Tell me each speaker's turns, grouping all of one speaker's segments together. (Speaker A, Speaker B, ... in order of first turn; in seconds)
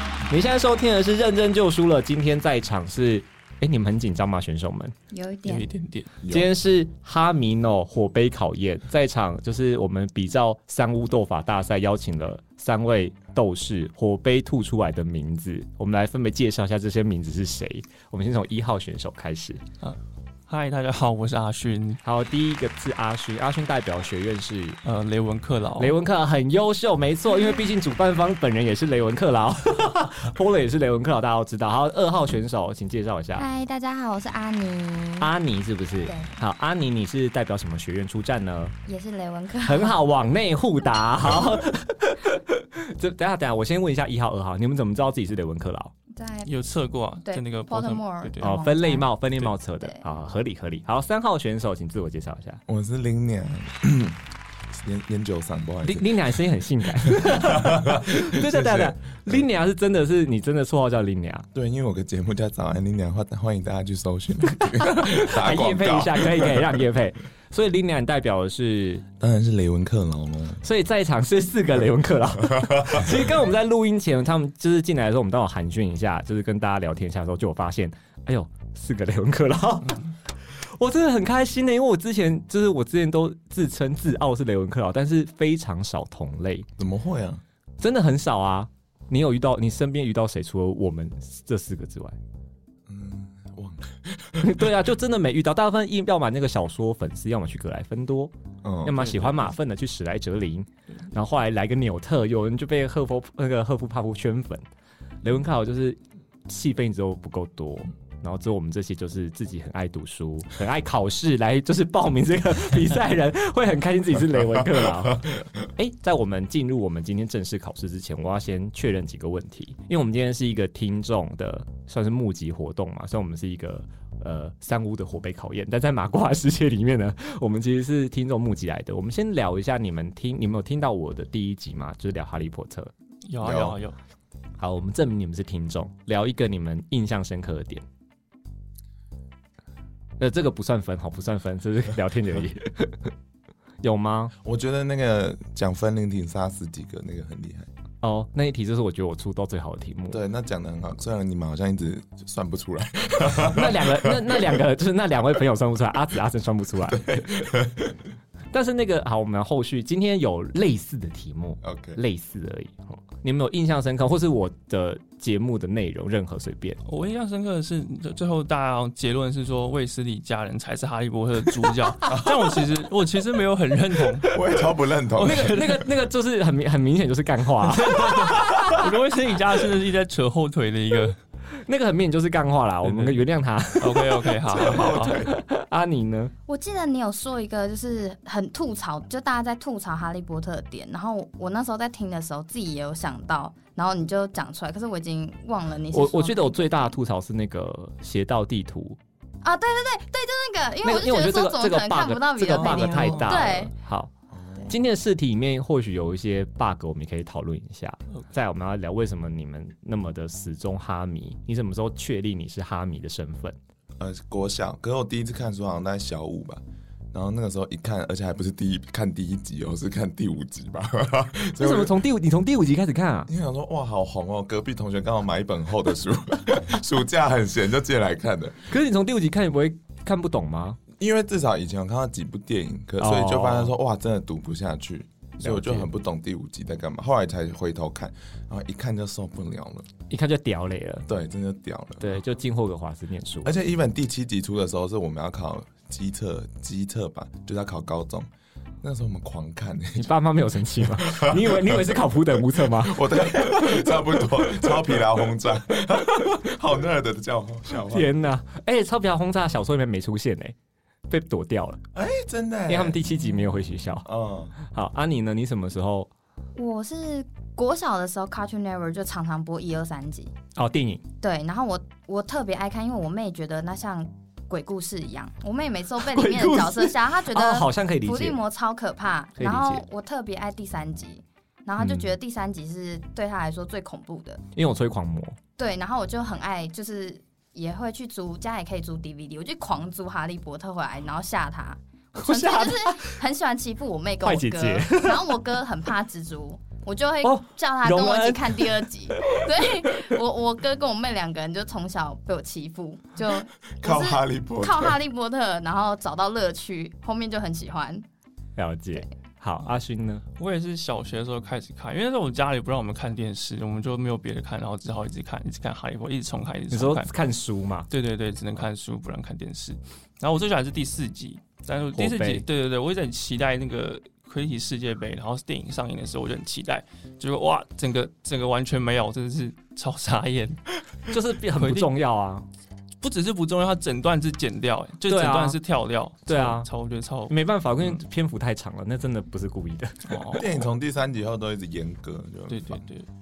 Speaker A: 0.3-4.9, 6.3-19.6, 22.0-24.8, 25.8-33.5, 35.2-38.8, 39.6-45.9, 48.4-52.6, 55.8-61.5, 64.8-69.0, 70.6-80.0, 80.6-86.7, 87.8-92.2, 94.4-98.3, 98.8-104.6, 105.2-132.9, 134.6-137.8, 140.2-143.1, 143.8-144.3, 148.0-150.2, 153.4-157.4, 158.5-166.8, 175.2-178.9, 181.6-186.3, 195.9-199.0, 200.8-204.1, 204.7-213.6, 221.6-223.3, 228.7-230.8, 233.0-233.7, 235.4-235.9, 240.1-241.1, 242.0-243.6, 249.9-253.8, 257.9-260.6, 261.1-261.8, 262.7-264.1, 264.6-266.1, 270.6-271.0, 276.0-278.4, 279.4-279.8, 281.8-282.1, 284.5-285.4, 292.1-293.2, 294.2-295.4, 297.2-300.0, 308.6-310.2, 316.7-317.9, 321.9-322.4, 331.1-332.4, 335.1-335.6, 336.3-336.7, 337.3-340.1
Speaker B: 5.1-5.7, 33.4-35.3, 36.0-36.3, 38.9-40.0, 46.1-46.5, 47.2-49.1, 186.5-196.9, 199.4-203.7, 266.6-270.3, 271.2-284.4, 285.6-308.0
Speaker C: 5.5-6.1, 19.8-22.0, 24.8-25.9, 46.5-48.5, 99.0-99.5, 133.3-134.0, 166.8-174.6, 175.1-175.9, 177.7-181.2, 182.8-183.2, 183.8-185.2, 202.6-203.4, 310.4-317.1, 317.9-330.6, 331.5-331.9, 333.0-338.0, 340.1-340.6, 342.5-343.1
Speaker D: 6.2-6.5, 52.7-54.2, 54.7-56.4, 56.9-59.4, 61.5-66.8, 69.2-70.6, 72.5-73.0, 86.8-87.4, 92.9-94.7, 98.6-99.0, 133.4-133.8, 144.4-147.7, 150.1-154.6, 156.9-158.0, 161.6-162.0, 172.1-172.4, 174.3-175.6, 184.5-185.3, 204.3-204.8, 214.0-216.6, 217.1-221.9, 223.3-228.7, 230.9-239.9, 241.1-242.2, 243.4-248.3, 248.8-250.1, 250.8-258.1, 261.9-263.5, 264.0-264.6, 303.8-305.0, 340.3-342.9